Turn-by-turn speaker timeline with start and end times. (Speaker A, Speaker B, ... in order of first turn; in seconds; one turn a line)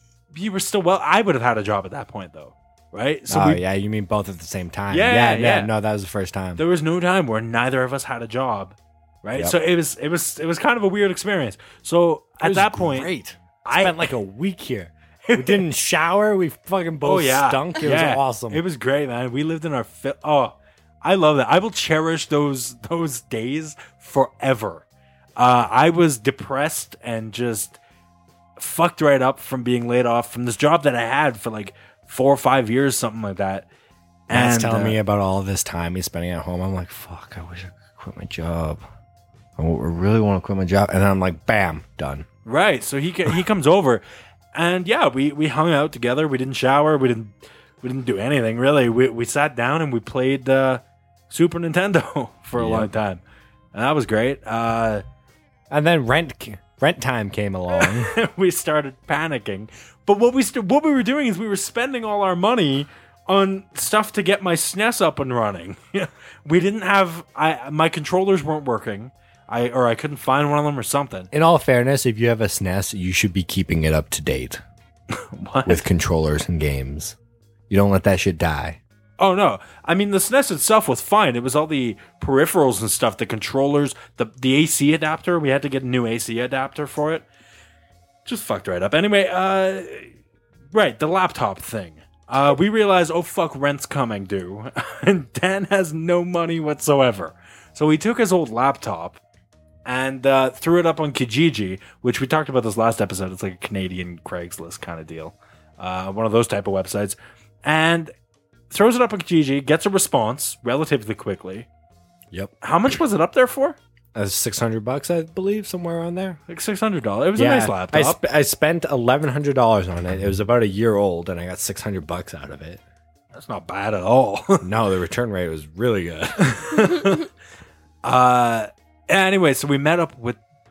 Speaker A: 0.3-3.6
Speaker B: 3.3-6.6
Speaker A: 4.9-5.7
Speaker A: 6.6-13.1
Speaker B: 12.4-18.6
Speaker A: 13.7-14.1
Speaker A: 15.2-15.7
Speaker A: 17.0-24.9
Speaker A: 25.4-27.8
Speaker A: 28.6-33.7
Speaker A: 34.3-35.0
Speaker B: 34.3-38.8
Speaker B: 39.6-42.3
Speaker A: 42.5-44.0
Speaker A: 44.5-53.2
Speaker B: 52.6-52.9
Speaker A: 53.7-55.0
Speaker B: 55.7-58.1
Speaker A: 57.8-71.3
Speaker B: 71.3-74.6
Speaker A: 75.1-75.9
Speaker B: 75.7-77.2
Speaker B: 77.7-78.8
Speaker A: 79.2-87.3
Speaker A: 88.2-90.1
Speaker A: 90.7-99.2
Speaker A: 99.8-108.1
Speaker A: 108.7-111.7
Speaker A: 112.6-113.8
Speaker B: 114.2-116.4
Speaker A: 116.5-118.2
Speaker B: 117.4-122.8
Speaker A: 123.3-124.7
Speaker B: 124.6-127.0
Speaker A: 126.7-127.2
Speaker A: 128.0-130.4